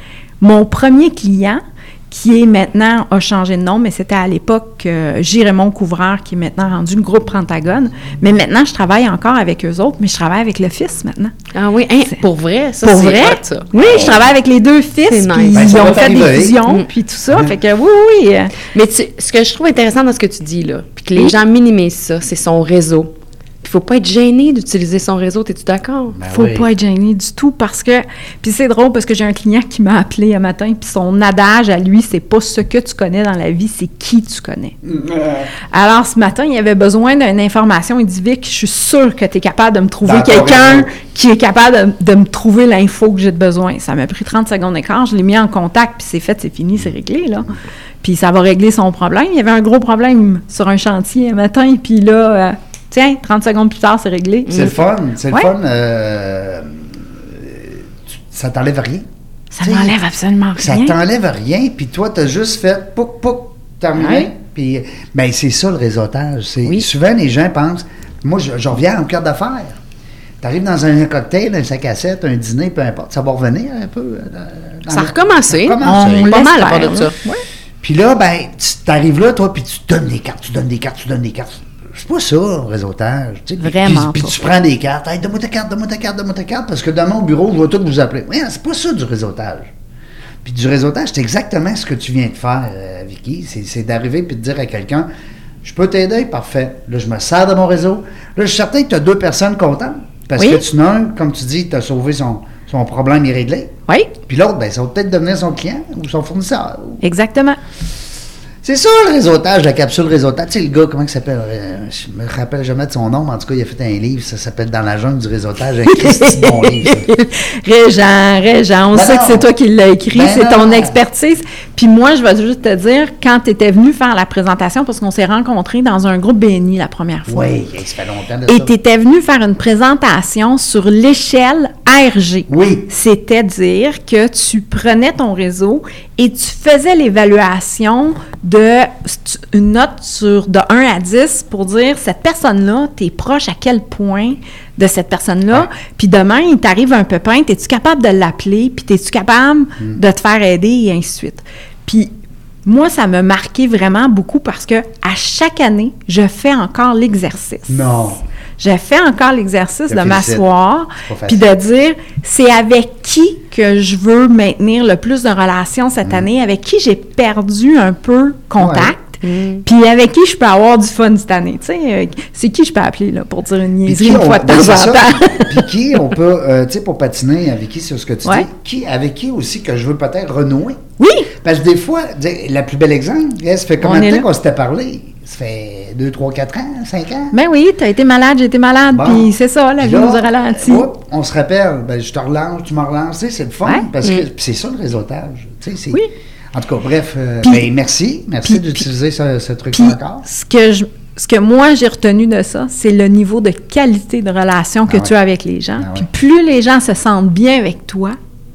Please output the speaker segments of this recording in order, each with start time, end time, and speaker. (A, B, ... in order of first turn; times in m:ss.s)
0:00.4-0:11.3 A
0:11.5-0:14.1 B
0:12.8-0:18.5 A
0:15.1-0:16.8 B
0:15.5-0:16.6 C
0:18.7-0:26.2 B
0:26.1-0:26.7 C
0:26.3-0:34.8 A
0:34.8-0:35.5 C
0:35.7-0:54.7 A
0:40.0-0:40.9 C
0:54.5-0:59.1 C
0:59.5-1:01.0 A
0:59.6-1:00.0 C
1:00.6-1:09.8 C
1:04.0-1:04.3 A
1:10.4-1:16.4 C
1:14.9-1:17.2 B
1:15.8-1:17.4 A
1:17.8-1:29.7 C
1:23.6-1:24.3 A
1:30.4-1:35.1 C
1:35.6-1:43.7 C
1:40.4-1:40.6 A
1:44.3-1:47.0 C
1:47.0-1:47.6 A
1:48.6-1:57.1 C
1:56.0-2:07.5 A
1:58.9-1:59.5 C
2:00.1-2:01.0 C
2:07.3-2:08.7 C
2:08.5-2:32.1 A
2:12.5-2:12.9 C
2:32.6-2:37.8 A
2:37.7-2:38.2 C
2:38.6-2:55.7 A
2:39.9-2:41.5 C
2:48.6-2:48.9 C
2:49.2-2:49.6 B
2:53.8-3:00.8 C
3:01.0-3:01.3 A
3:01.3-3:07.3 C
3:03.8-3:04.2 A
3:07.3-3:10.9 A
3:08.9-3:16.0 C
3:16.5-3:20.2 C
3:18.4-3:18.8 A
3:19.7-3:28.2 A
3:25.8-3:26.1 C